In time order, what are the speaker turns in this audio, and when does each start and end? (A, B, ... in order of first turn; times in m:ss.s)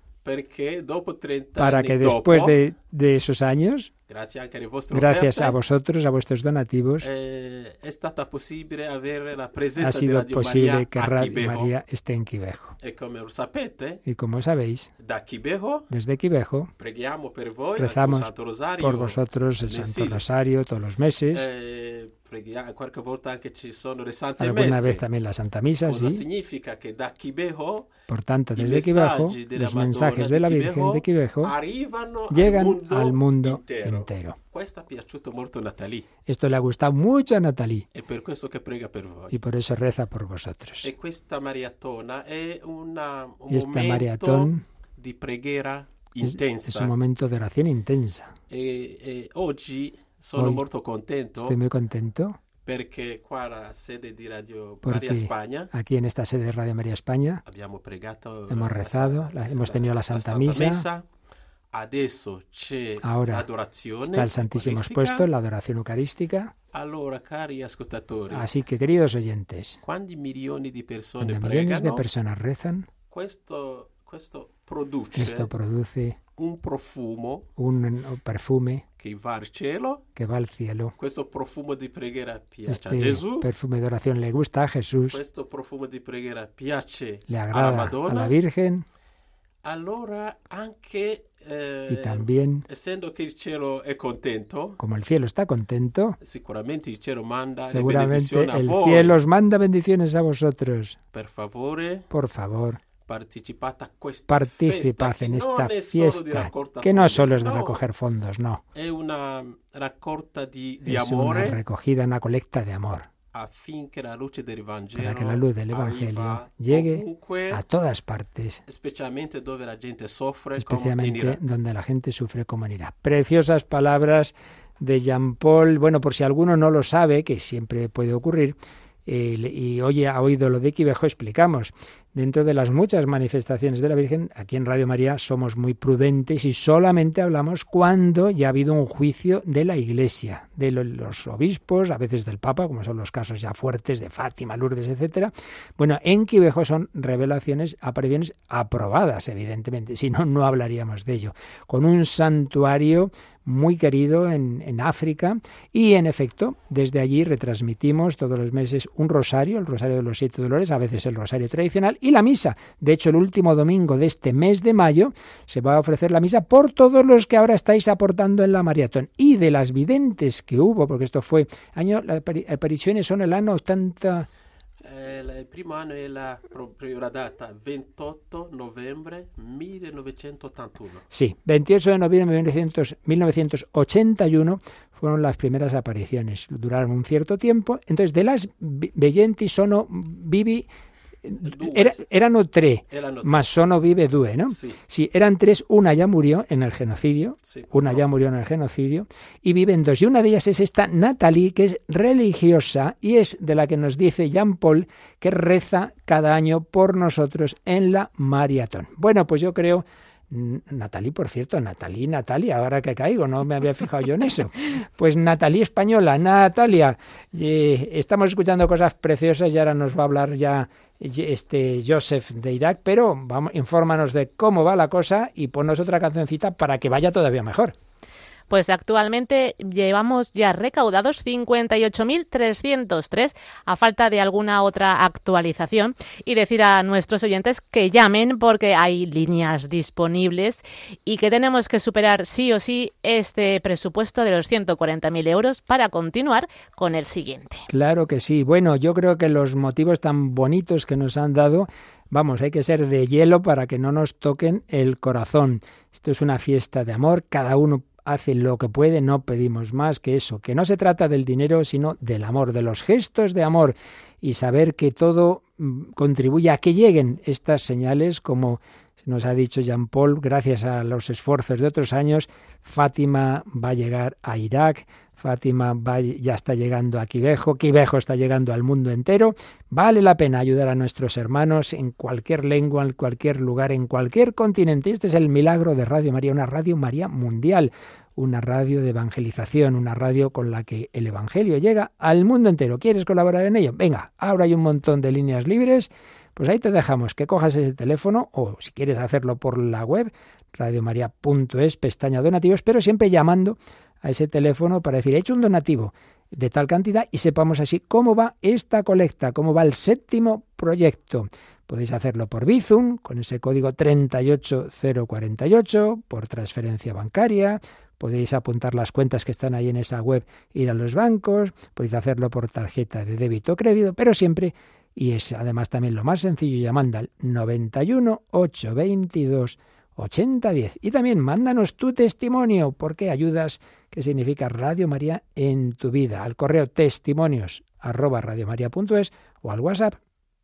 0:00.2-0:02.5 A
0:01.6-0:03.9 B
0:04.1-0:05.6 A
0:04.9-0:07.1 B
0:07.0-0:11.7 A
0:09.8-0:12.8 B
0:12.8-0:14.0 A
0:14.0-0:14.9 B
0:15.0-0:15.9 A
0:15.9-0:16.7 B
0:16.8-0:20.2 A
0:17.8-0:21.5 B
0:21.3-0:25.0 A
0:24.4-0:26.2 B
0:25.8-0:27.9 A
0:28.1-0:31.6 B
0:28.6-0:36.1 A
0:32.3-0:34.4 B
0:36.3-0:37.9 B
0:37.9-0:39.3 A
0:39.3-0:40.9 B
0:40.8-0:46.9 A
0:43.5-0:44.6 B
0:46.2-0:48.4 B
0:48.5-0:51.6 A
0:50.4-0:50.6 B
0:51.4-0:52.4 B
0:52.6-0:55.7 A
0:54.8-0:57.4 B
0:57.4-1:01.0 A
0:58.5-1:00.9 B
1:01.7-1:05.3 A
1:03.0-1:03.5 B
1:04.0-1:06.5 B
1:06.7-1:08.5 A
1:08.3-1:09.8 B
1:09.8-1:12.0 A
1:11.2-1:12.9 B
1:13.1-1:15.5 A
1:15.1-1:16.2 B
1:16.4-1:17.5 A
1:17.6-1:18.8 B
1:19.0-1:20.0 A
1:20.2-1:20.9 B
1:21.0-1:23.5 A
1:22.7-1:25.2 B
1:25.1-1:28.4 A
1:27.3-1:28.8 B
1:29.6-1:34.8 A
1:31.9-1:32.6 B
1:34.8-1:36.2 B
1:36.2-1:39.2 A
1:37.7-1:41.0 B
1:41.1-1:42.1 A
1:42.1-1:42.8 B
1:43.0-1:47.8 A
1:44.3-1:48.6 B
1:48.8-1:51.6 A
1:50.8-1:53.1 B
1:53.3-1:57.6 A
1:55.0-1:58.6 B
1:58.7-2:01.4 A
2:00.6-2:54.3 B
2:54.8-3:01.0 A
3:01.1-3:10.7 B
3:11.2-3:47.8 B
3:11.4-3:12.0 A
3:12.9-3:13.4 A
3:14.5-3:14.8 A
3:17.4-3:18.0 A
3:48.5-4:07.7 C
4:07.7-5:40.0 B